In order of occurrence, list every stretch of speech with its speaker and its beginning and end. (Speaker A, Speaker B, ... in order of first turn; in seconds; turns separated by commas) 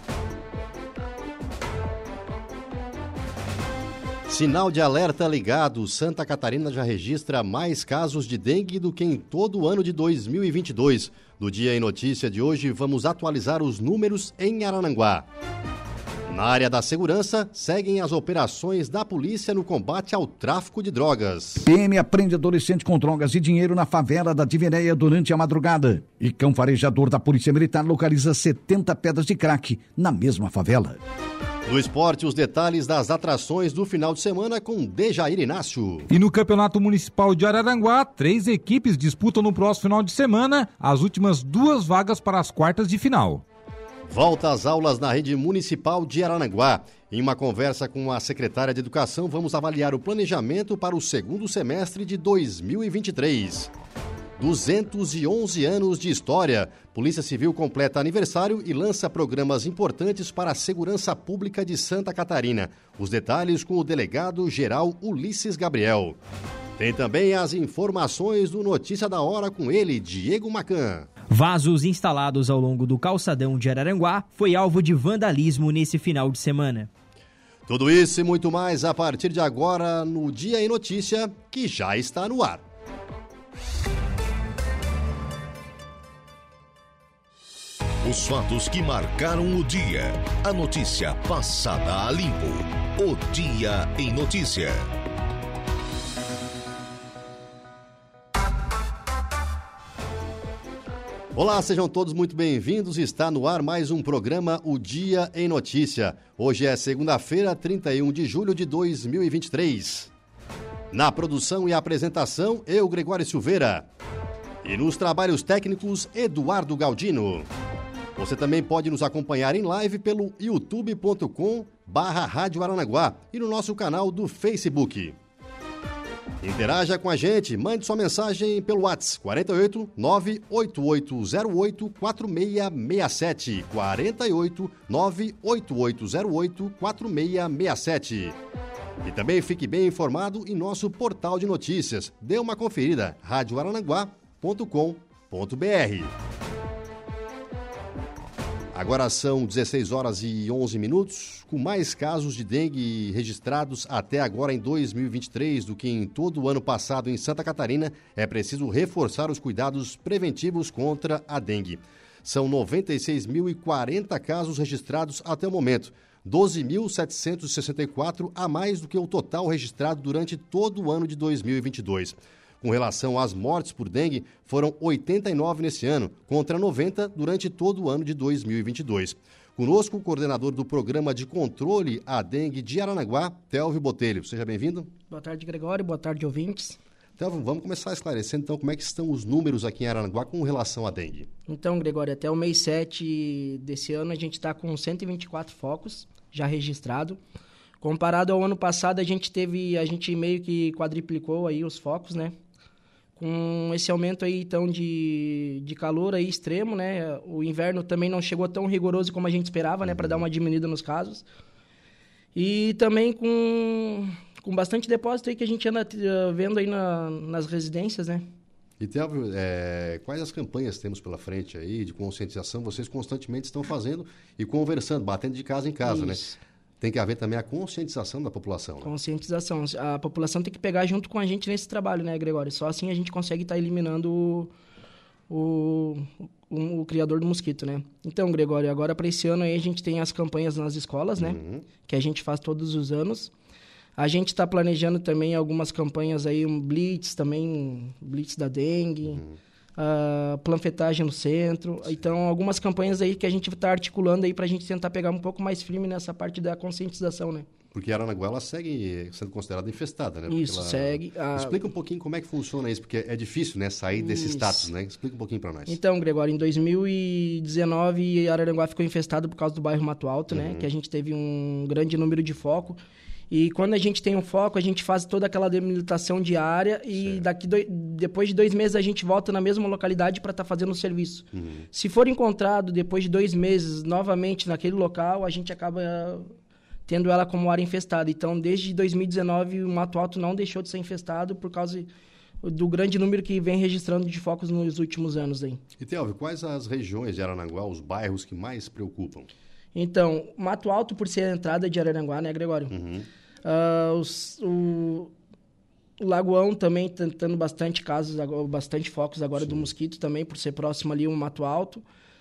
Speaker A: 4.3-15.3, Speaker A: 16.3-21.7, Speaker B: 21.7-31.0, Speaker A: 31.7-36.1, Speaker C: 36.1-43.4, Speaker A: 44.1-53.7, Speaker A: 54.4-66.2, Speaker A: 66.8-71.1, Speaker D: 71.3-76.9, Speaker A: 77.7-82.6, Speaker E: 88.0-94.8, Speaker A: 101.3-110.1, Speaker A: 110.9-113.9, Speaker A: 114.6-117.5, Speaker A: 118.2-125.2, Speaker A: 126.4-138.4, Speaker A: 139.0-146.1, Speaker A: 148.7-184.9, Speaker F: 185.1-186.8, Speaker A: 187.2-191.3, Speaker F: 191.5-197.2, Speaker F: 197.8-202.3, Speaker F: 203.2-211.3, Speaker A: 209.8-210.2, Speaker F: 212.3-218.3, Speaker A: 218.8-228.9, Speaker F: 225.8-226.3, Speaker F: 228.8-234.5, Speaker F: 235.3-243.3, Speaker A: 241.2-241.7, Speaker F: 244.0-249.2, Speaker A: 249.1-249.4, Speaker F: 249.8-257.5, Speaker A: 257.7-265.8, Speaker F: 260.3-261.6, Speaker F: 264.0-264.7, Speaker F: 265.7-272.8, Speaker A: 270.3-270.7, Speaker F: 273.3-286.3, Speaker A: 277.0-277.2, Speaker A: 281.3-281.7, Speaker F: 286.9-291.9, Speaker F: 292.4-295.6, Speaker A: 295.8-299.3, Speaker F: 299.8-302.7, Speaker A: 302.7-303.1, Speaker F: 303.4-305.1, Speaker F: 306.0-311.8, Speaker A: 309.4-309.7